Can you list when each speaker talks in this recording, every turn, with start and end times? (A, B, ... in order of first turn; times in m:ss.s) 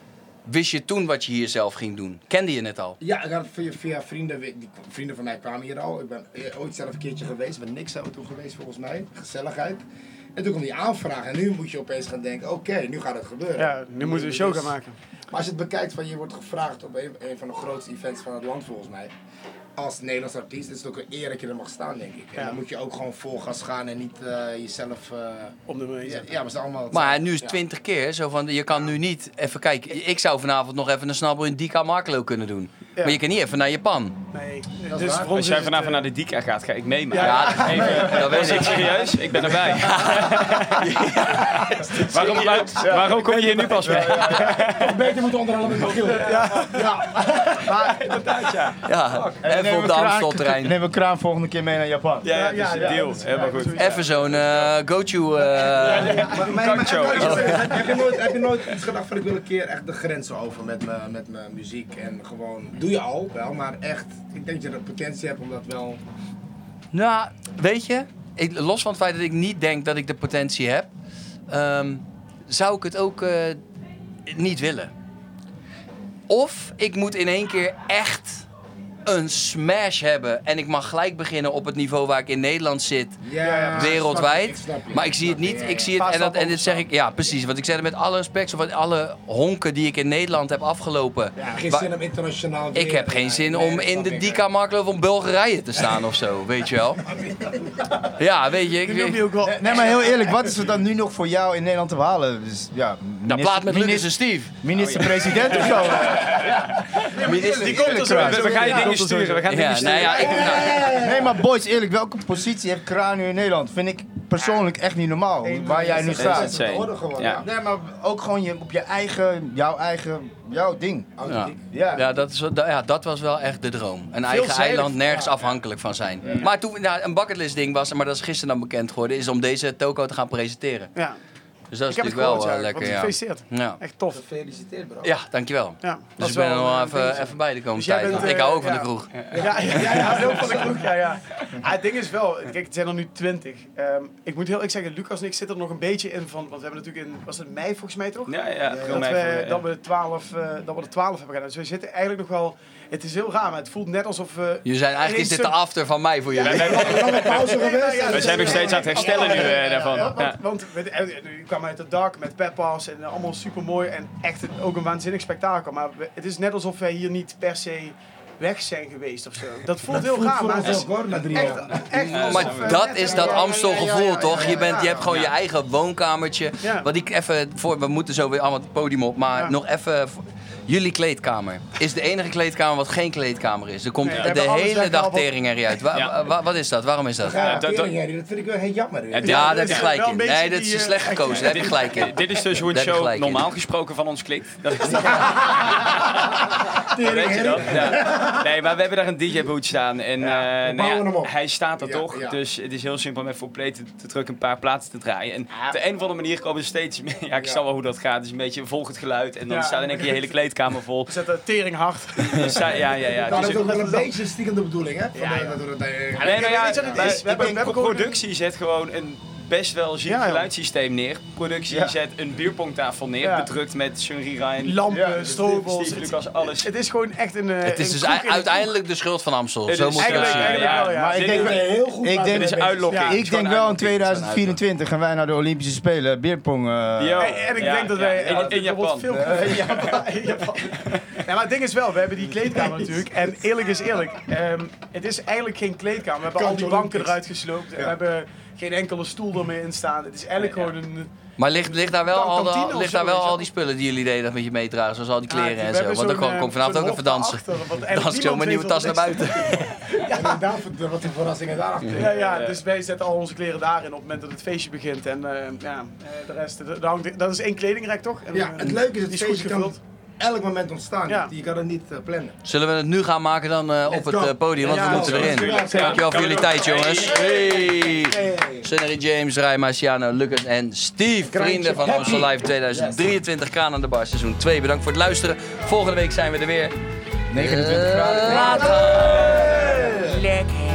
0:00.5-0:03.0 A
0:03.0-0:09.8 B
0:10.4-0:14.7 B
0:13.6-0:14.9 C
0:15.3-0:19.1 B
0:19.8-0:27.6 B
0:22.4-0:22.6 C
0:25.6-0:26.4 C
0:26.9-0:34.2 A
0:32.9-0:33.2 C
0:34.3-0:36.1 C
0:34.9-0:35.3 B
0:35.3-0:45.0 D
0:37.1-0:39.1 C
0:37.2-0:39.0 A
0:37.7-0:38.3 B
0:39.3-0:39.7 B
0:39.8-0:42.2 A
0:41.7-0:44.6 C
0:43.0-0:43.3 E
0:43.8-0:44.6 E
0:44.6-0:47.7 B
0:46.0-0:46.9 C
0:47.5-0:48.6 C
0:47.8-0:49.4 D
0:48.8-0:50.8 A
0:49.4-0:52.3 E
0:52.2-0:54.5 D
0:52.3-0:54.4 C
0:53.7-0:56.3 A
0:55.5-0:58.1 C
0:55.8-1:06.0 B
0:55.8-0:57.8 D
0:57.2-0:57.6 A
1:06.9-1:10.9 A
1:11.5-1:13.6 A
1:14.3-1:14.9 A
1:16.3-1:18.5 A
1:19.0-1:23.2 A
1:23.2-1:26.0 B
1:23.4-1:24.0 C
1:23.7-1:31.9 A
1:26.0-1:26.9 C
1:31.4-1:34.4 B
1:32.7-1:37.0 A
1:37.1-1:37.9 B
1:38.2-1:39.2 A
1:38.8-1:40.2 C
1:39.4-1:49.0 E
1:43.2-1:44.5 A
1:44.7-1:46.8 D
1:45.4-1:46.5 C
1:47.1-1:50.9 C
1:47.2-1:48.3 A
1:48.1-1:50.9 D
1:49.5-1:50.8 A
1:50.1-1:51.4 B
1:50.9-1:56.6 E
1:55.4-1:56.4 C
1:55.9-1:57.5 B
1:56.1-1:57.4 D
1:57.3-2:02.1 E
2:01.2-2:01.8 B
2:01.2-2:10.9 A
2:04.2-2:05.0 C
2:05.1-2:05.4 B
2:06.2-2:06.5 B
2:11.7-2:13.8 A
2:11.9-2:14.2 C
2:14.1-2:15.1 B
2:15.0-2:19.2 A
2:15.8-2:35.6 C
2:18.1-2:18.4 B
2:19.3-2:20.8 B
2:28.3-2:29.6 D
2:28.7-2:29.1 B
2:34.6-2:36.9 A
2:36.3-2:55.0 C
2:36.4-2:37.4 D
2:36.5-2:39.8 B
2:38.1-2:40.4 D
2:49.9-2:51.8 B
2:50.6-2:52.9 D
2:51.9-3:07.5 A
2:52.5-2:55.2 B
2:55.0-2:55.3 D
2:56.6-2:56.9 C
3:04.0-3:05.3 C
3:04.0-3:04.3 D
3:07.2-3:09.8 B
3:07.4-3:07.9 D
3:09.1-3:09.9 D
3:09.2-3:12.0 C
3:09.2-3:12.1 A
3:11.4-3:31.1 D
3:12.6-3:13.5 A
3:14.8-3:18.5 B
3:20.2-3:22.4 B
3:27.4-3:27.6 B
3:29.5-3:30.3 C
3:31.1-3:32.6 C
3:32.2-3:33.6 D
3:33.2-3:34.1 C
3:33.3-3:37.2 B
3:35.1-3:35.6 C
3:36.1-3:38.2 C
3:36.2-3:46.7 D
3:37.2-3:37.7 E
3:40.0-3:40.5 C
3:43.2-3:43.5 C
3:44.6-3:48.8 C
3:44.9-3:45.4 E
3:47.6-3:50.7 A
3:49.7-3:51.6 D
3:49.9-3:51.5 C
3:50.9-3:57.7 E
3:51.1-3:53.2 B
3:52.3-3:53.6 D
3:52.9-3:53.2 C
3:53.4-3:54.6 A
3:57.0-4:01.1 D
3:57.2-4:11.1 C
3:59.1-3:59.7 E
4:06.3-4:07.2 B
4:10.4-4:10.7 D
4:11.4-4:19.8 A
4:11.6-4:13.5 C
4:15.3-4:20.4 C
4:20.1-4:22.2 B
4:21.9-4:29.8 C
4:22.1-4:22.6 D
4:28.3-4:32.4 B
4:32.4-4:46.8 A
4:33.8-4:38.7 B
4:34.6-4:36.0 C
4:34.8-4:37.2 D
4:41.2-4:43.0 B
4:47.3-4:48.9 E
4:47.4-4:49.6 A
4:48.2-4:50.3 B